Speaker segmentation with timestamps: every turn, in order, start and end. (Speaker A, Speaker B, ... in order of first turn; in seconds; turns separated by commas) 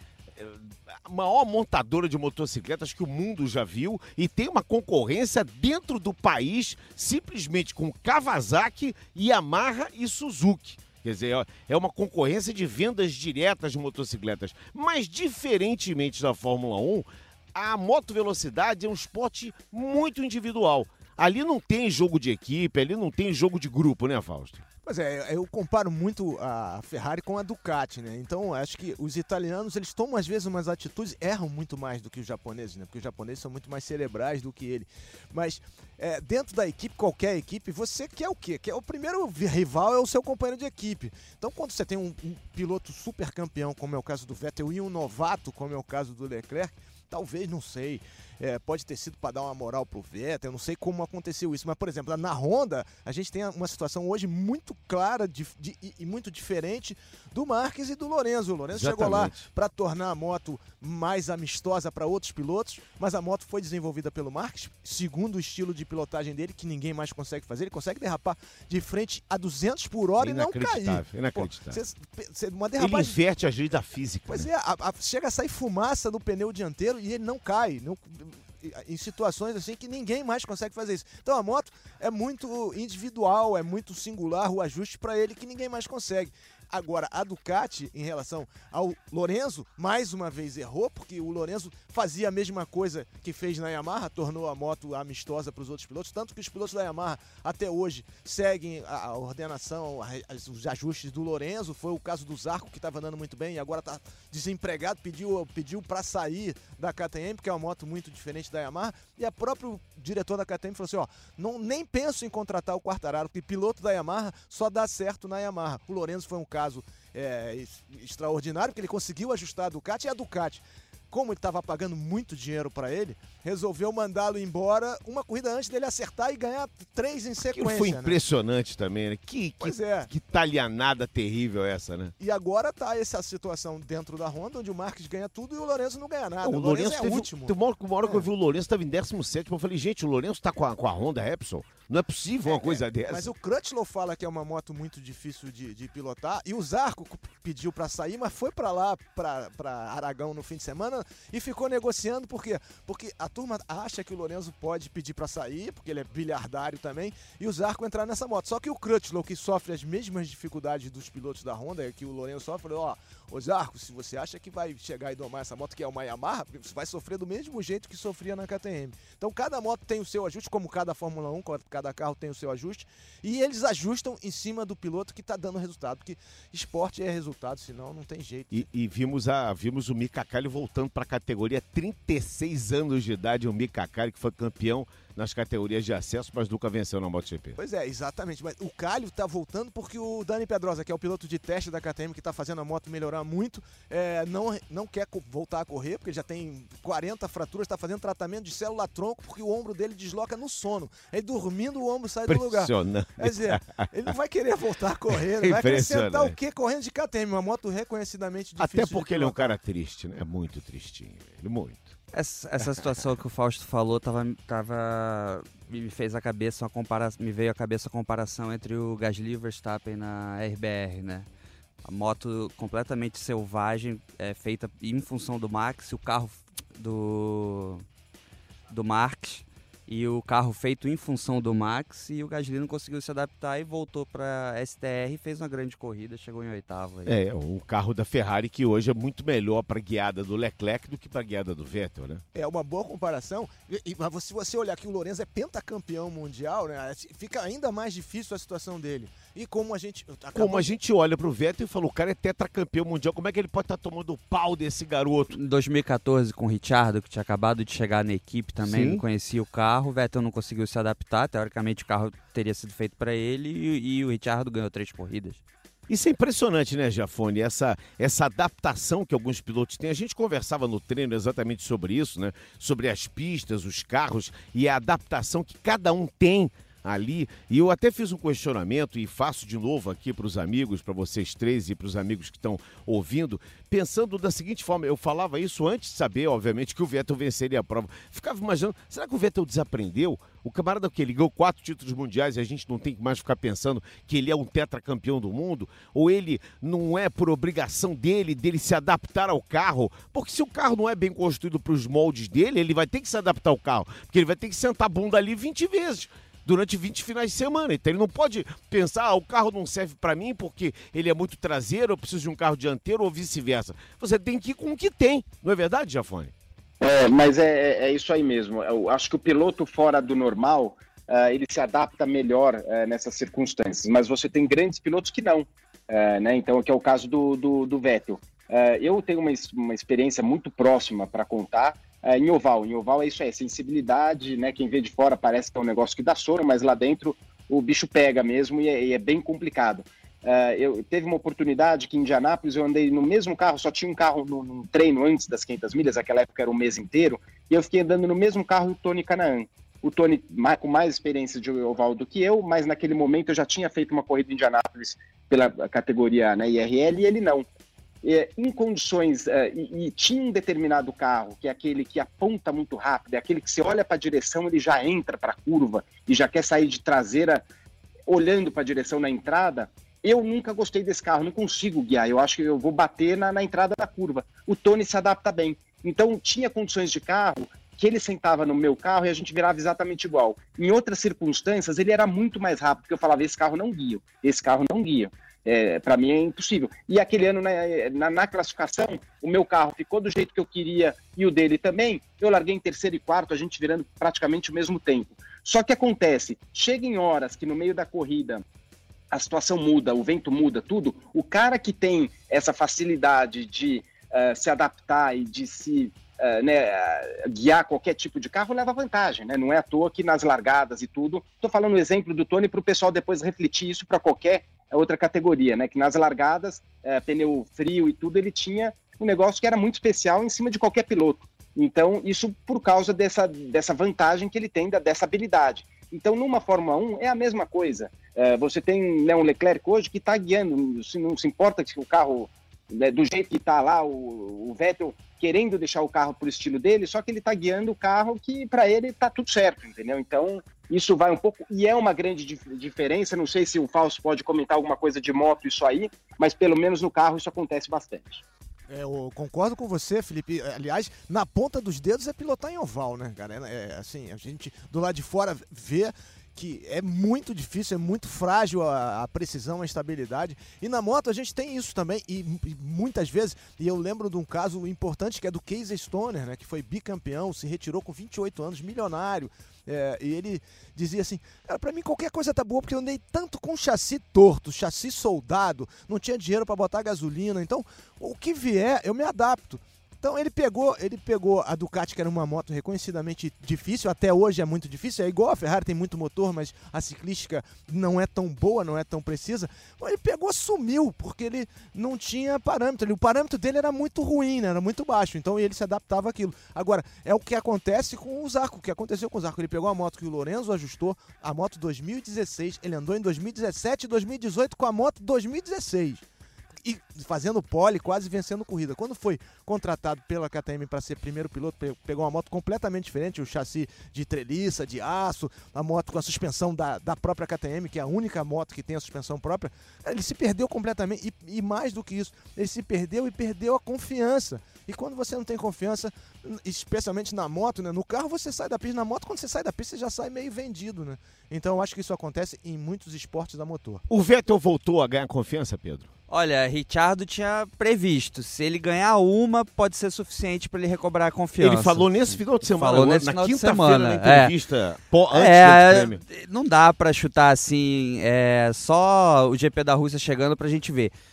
Speaker A: 0.4-24.6, Speaker B: 24.9-73.2, Speaker A: 58.7-59.5, Speaker A: 70.2-71.8, Speaker A: 72.8-74.5, Speaker B: 74.3-128.2, Speaker A: 127.5-132.1, Speaker B: 129.6-130.1, Speaker B: 132.2-138.3, Speaker A: 136.4-143.3, Speaker B: 142.5-178.7, Speaker A: 178.5-187.6, Speaker B: 187.6-209.6, Speaker A: 202.3-203.9, Speaker A: 205.4-206.3, Speaker A: 208.6-211.9, Speaker C: 212.1-221.3, Speaker C: 221.8-227.8, Speaker C: 228.7-237.1, Speaker A: 237.1-242.2, Speaker B: 242.3-250.7, Speaker A: 250.3-255.3, Speaker C: 255.3-265.4, Speaker A: 258.6-259.0, Speaker A: 265.9-316.3, Speaker D: 316.8-357.4, Speaker D: 358.0-367.4, Speaker D: 368.1-398.4, Speaker D: 399.1-448.2, Speaker B: 448.7-506.1, Speaker B: 506.6-533.8, Speaker A: 533.9-535.9, Speaker C: 536.1-544.4, Speaker A: 541.4-546.0, Speaker C: 545.1-550.9